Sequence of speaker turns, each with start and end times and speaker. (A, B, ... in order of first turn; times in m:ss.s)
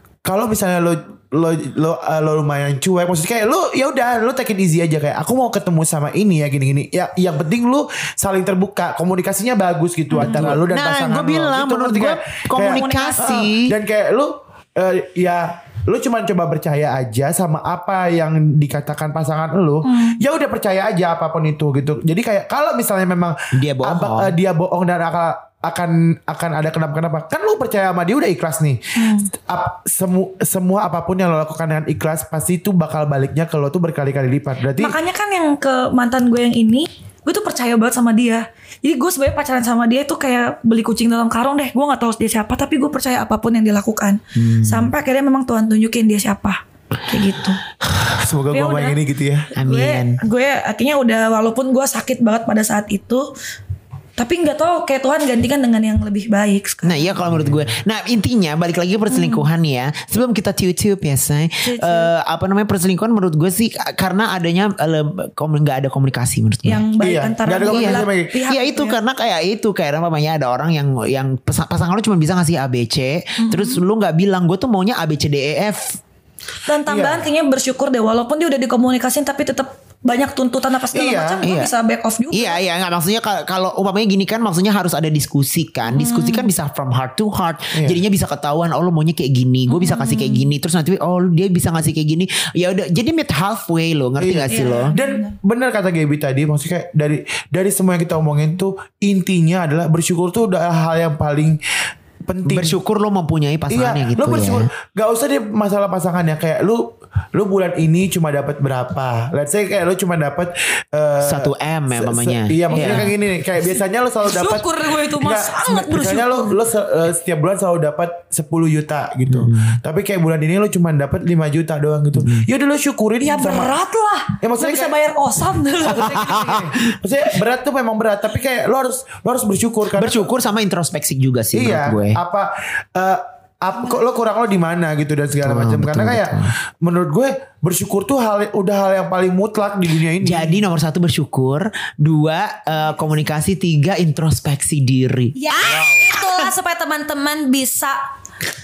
0:00.2-0:35.0 A
0:10.1-0:10.5 B
0:10.2-0:13.7 C
0:12.6-0:13.5 B
0:19.8-0:20.2 B
0:23.5-0:24.4 C
0:29.0-0:29.3 B
0:34.8-0:47.6 B
0:44.4-0:44.9 C
0:48.1-0:49.5 A
0:48.5-0:49.0 B
0:49.6-0:50.2 C
0:49.6-0:53.3 B
0:54.2-0:57.2 B
0:56.8-1:06.8 C
0:57.3-0:57.7 A
0:59.1-0:59.5 B
1:01.6-1:02.1 B
1:06.6-1:09.0 B
1:07.0-1:08.4 A
1:07.6-1:16.0 C
1:13.4-1:13.8 B
1:16.6-1:22.6 B
1:16.8-1:17.3 A
1:20.9-1:21.4 A
1:21.4-1:21.7 C
1:22.3-1:34.9 C
1:25.9-1:26.5 B
1:27.7-1:28.0 A
1:29.7-1:30.5 B
1:34.2-1:41.6 A
1:34.5-1:35.3 B
1:42.2-1:42.8 A
1:42.4-1:44.7 C
1:43.7-2:03.7 A
1:51.2-1:53.1 C
1:52.7-1:53.1 B
1:54.2-1:56.5 B
1:59.3-1:59.8 C
2:02.2-2:02.5 C
2:03.2-2:06.8 B
2:04.4-2:04.9 A
2:05.8-2:10.3 A
2:09.9-2:12.2 C
2:11.5-2:20.6 A
2:15.4-2:16.5 C
2:20.2-2:26.5 C
2:25.4-2:28.0 B
2:25.7-2:26.0 A